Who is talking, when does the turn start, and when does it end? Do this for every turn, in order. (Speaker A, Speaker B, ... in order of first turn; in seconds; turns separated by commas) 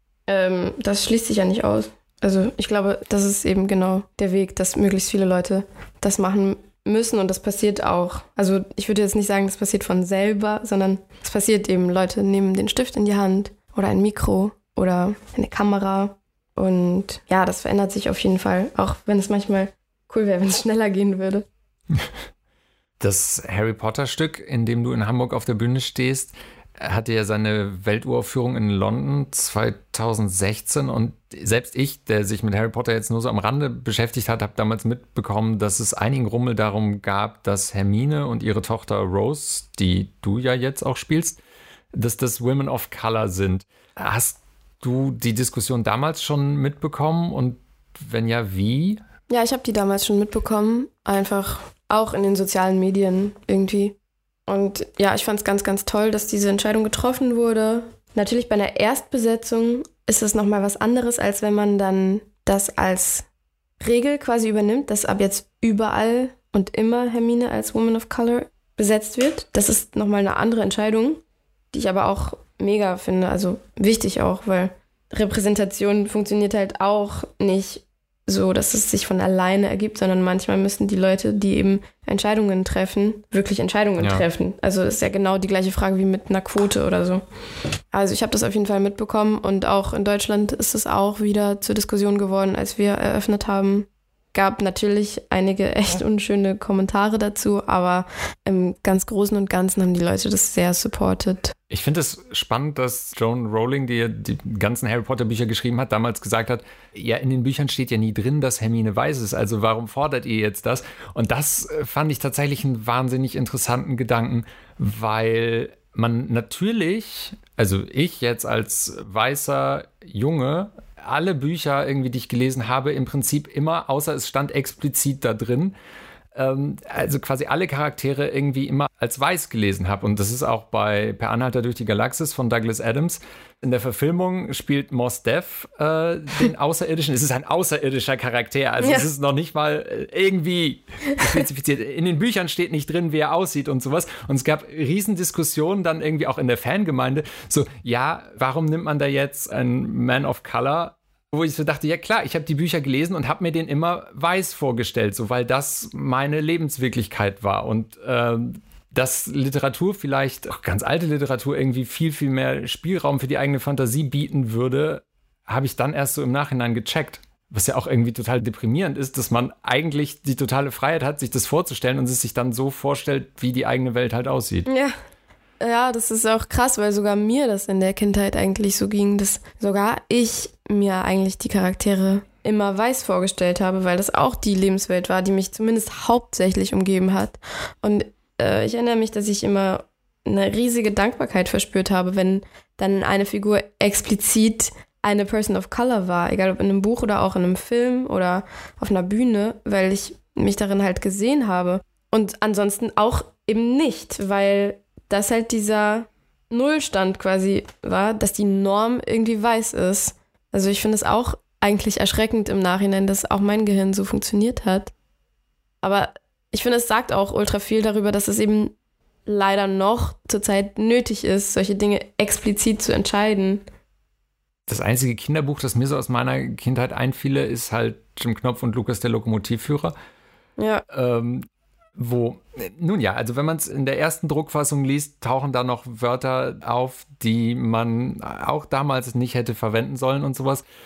Speaker A: 0.3-21.5, Speaker B: 23.0-41.4, Speaker B: 42.0-49.0, Speaker A: 49.3-63.3, Speaker A: 63.8-87.2, Speaker B: 84.0-84.2, Speaker A: 87.9-101.5, Speaker B: 101.7-125.8, Speaker B: 126.3-174.7, Speaker A: 138.8-139.1, Speaker A: 174.7-174.9, Speaker A: 175.6-214.9, Speaker A: 215.8-218.8, Speaker A: 219.3-223.6, Speaker B: 224.7-229.9, Speaker A: 230.6-230.8, Speaker B: 230.9-231.5, Speaker B: 232.0-240.6